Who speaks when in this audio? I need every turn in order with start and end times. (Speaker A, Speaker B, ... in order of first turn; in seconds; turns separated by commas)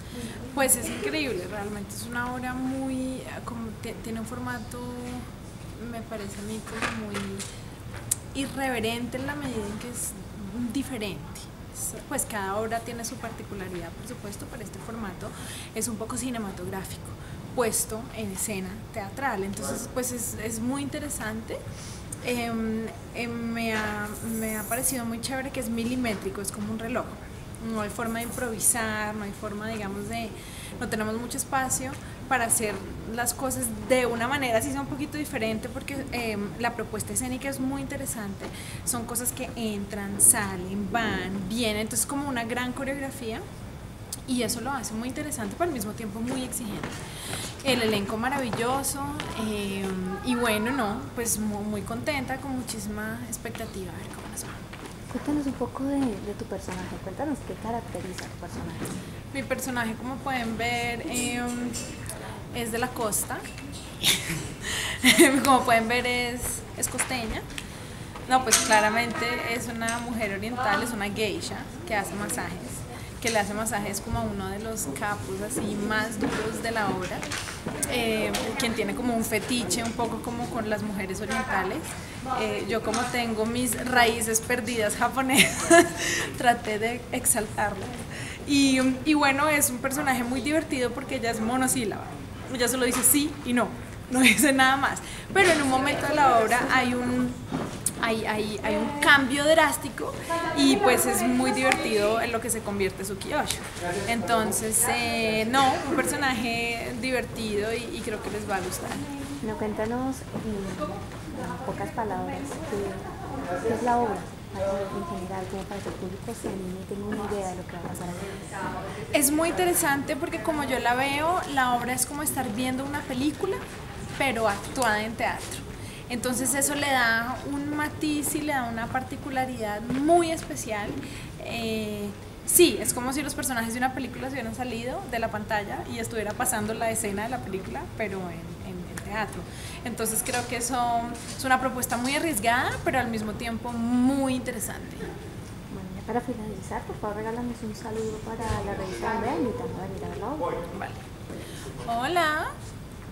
Speaker A: 0.5-7.5, Speaker A: 8.3-21.6, Speaker A: 22.2-43.4, Speaker A: 44.3-47.0, Speaker A: 47.6-54.6, Speaker B: 55.1-59.0, Speaker A: 59.3-61.8, Speaker A: 62.5-63.4, Speaker A: 64.0-67.4, Speaker A: 68.3-77.2, Speaker A: 77.9-97.4, Speaker A: 98.0-109.1, Speaker B: 109.4-113.1, Speaker B: 113.6-118.4, Speaker A: 119.1-123.6, Speaker A: 124.2-145.1, Speaker B: 145.7-150.6, Speaker A: 150.7-151.0, Speaker A: 151.8-152.5